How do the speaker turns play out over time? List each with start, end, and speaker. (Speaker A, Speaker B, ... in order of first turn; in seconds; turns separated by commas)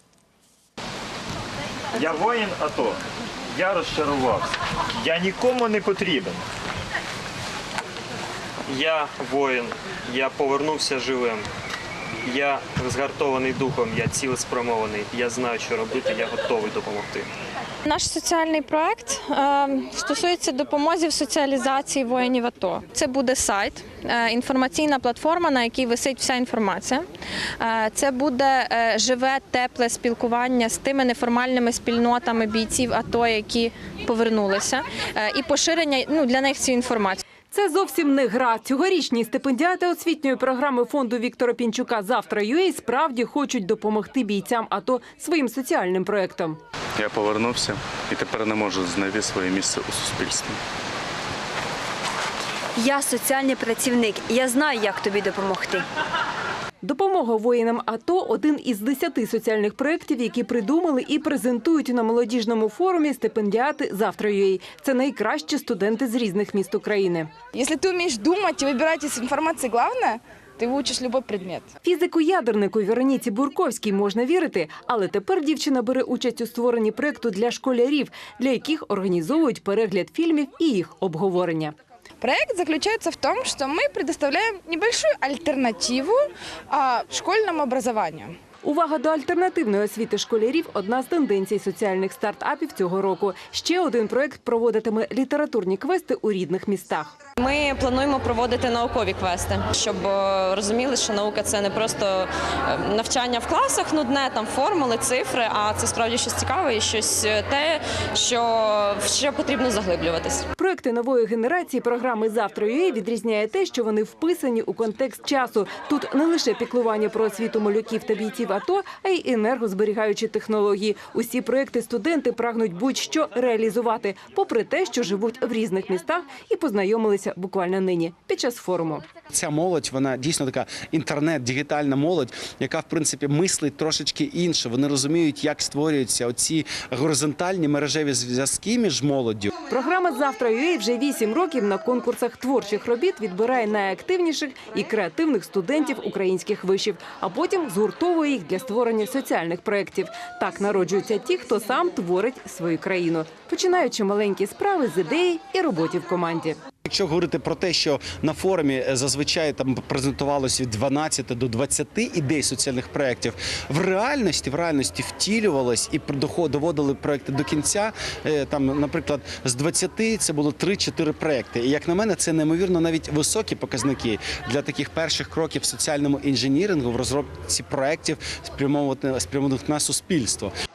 Speaker A: 1.9-6.4, Speaker B: 8.7-11.4, Speaker B: 12.2-17.3, Speaker C: 17.9-27.1, Speaker C: 27.6-37.2, Speaker D: 37.5-46.6, Speaker E: 47.0-50.6, Speaker F: 52.8-55.8, Speaker D: 56.8-67.3, Speaker G: 67.5-71.7, Speaker D: 71.8-81.8, Speaker G: 82.2-88.4, Speaker D: 88.6-97.2, Speaker H: 97.4-110.4, Speaker D: 110.6-129.1, Speaker I: 129.3-139.5, Speaker D: 139.7-156.6, Speaker I: 156.8-180.5